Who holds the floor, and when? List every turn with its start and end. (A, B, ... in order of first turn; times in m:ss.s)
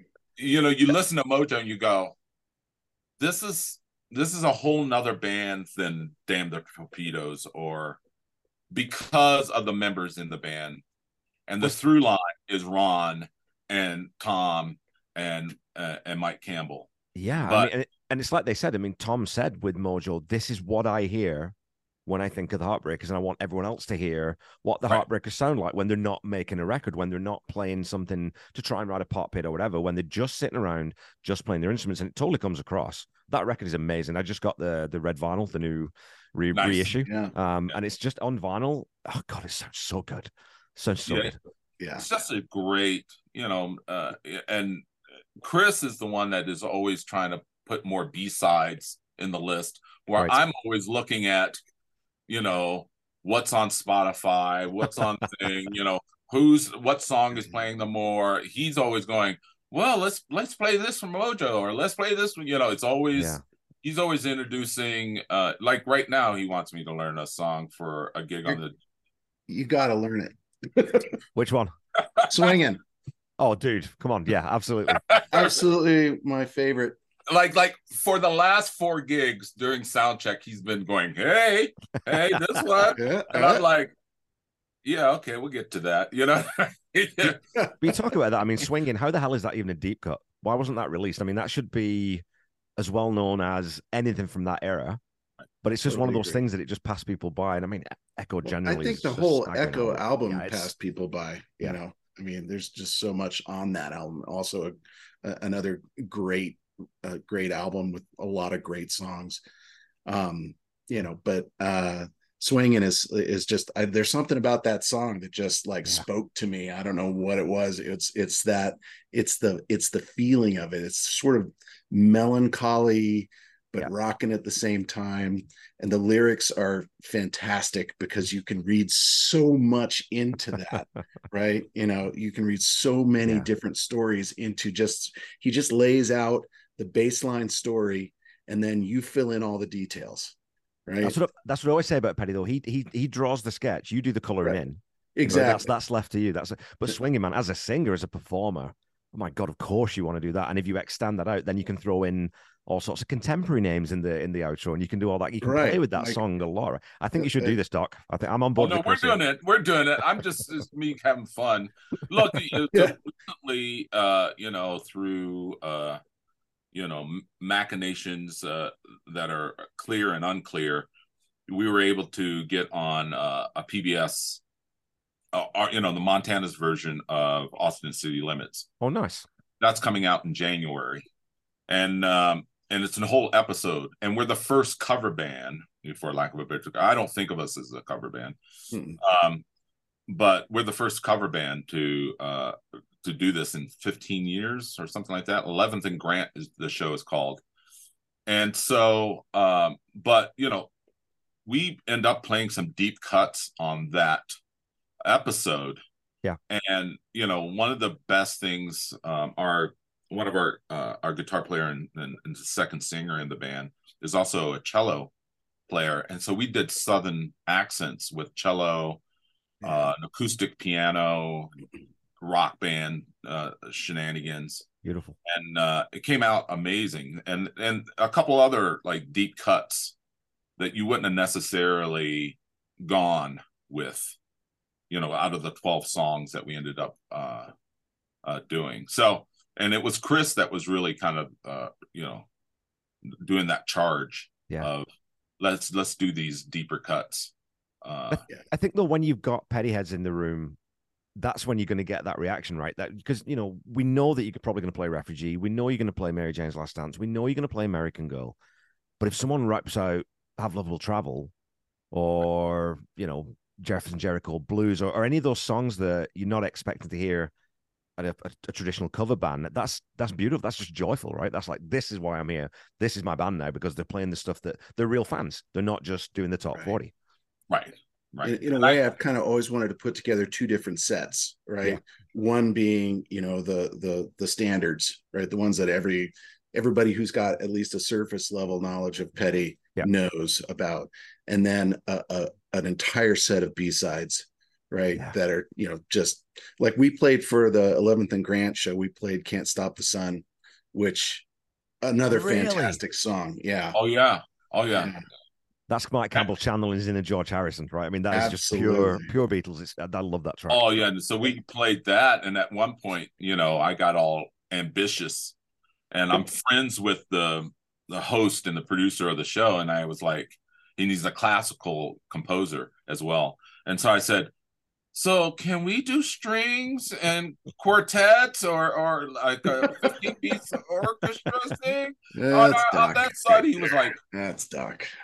0:00.4-0:02.2 A
0:03.2-0:08.0 A
0:08.7-0:10.8 A
0:11.5-0:16.9 A
0:17.2-0:21.6 B
0:17.4-0:17.7 A
0:22.1-0:41.4 B
0:36.5-0:36.9 A
0:37.1-0:37.3 C
0:41.1-0:41.3 A
0:41.8-0:42.0 C
0:42.0-0:44.8 A
0:45.4-0:51.6 A
0:52.3-1:08.8 A
1:09.5-1:11.2 C
1:11.4-1:11.7 B
1:12.2-1:12.5 A
1:12.3-1:12.8 C
1:13.4-1:15.0 B
1:14.9-1:15.6 A
1:15.3-1:17.0 C
1:17.3-1:23.9 A
1:22.8-1:23.6 C
1:24.8-1:27.4 A
1:27.8-1:32.2 B
1:32.8-1:35.0 B
1:35.6-1:40.7 B
1:35.9-1:36.4 C
1:38.4-1:49.4 C
1:50.1-2:20.4 C
2:20.9-2:21.2 C
2:21.0-2:39.2 B
2:25.2-2:25.7 C
2:35.4-2:36.2 C
2:37.2-2:37.6 C
2:38.6-2:46.0 A
2:46.7-2:50.9 A
2:51.5-2:54.4 A
2:55.3-2:58.7 A
2:58.8-2:59.3 B
2:59.6-3:01.0 A
3:01.7-3:08.4 A
3:08.7-3:09.0 C
3:09.0-3:09.4 A
3:10.1-3:17.4 A
3:18.3-3:20.7 A
3:21.5-3:24.3 A
3:25.0-3:25.8 A
3:26.5-3:35.1 A
3:35.7-3:39.0 A
3:39.6-3:41.6 A
3:39.6-3:39.9 C
3:42.2-3:44.7 A
3:44.8-3:45.2 B
3:45.2-3:50.0 A
3:50.6-3:54.2 A
3:54.9-3:57.5 A
3:58.2-4:02.3 A
4:03.1-4:04.9 A
4:05.4-4:08.2 A
4:08.1-4:10.6 B
4:11.2-4:18.4 B
4:19.0-4:21.3 B
4:21.9-4:27.3 B
4:28.0-4:36.9 B
4:37.5-4:38.8 A
4:38.2-5:01.3 C
5:01.8-5:03.8 C
5:02.1-5:02.8 B
5:03.7-5:04.9 A
5:04.7-5:05.0 C
5:05.7-5:10.6 B
5:08.1-5:09.1 C
5:10.5-5:15.3 A
5:15.9-5:24.3 A
5:24.9-5:34.0 A
5:29.6-5:30.0 C
5:32.2-5:34.9 C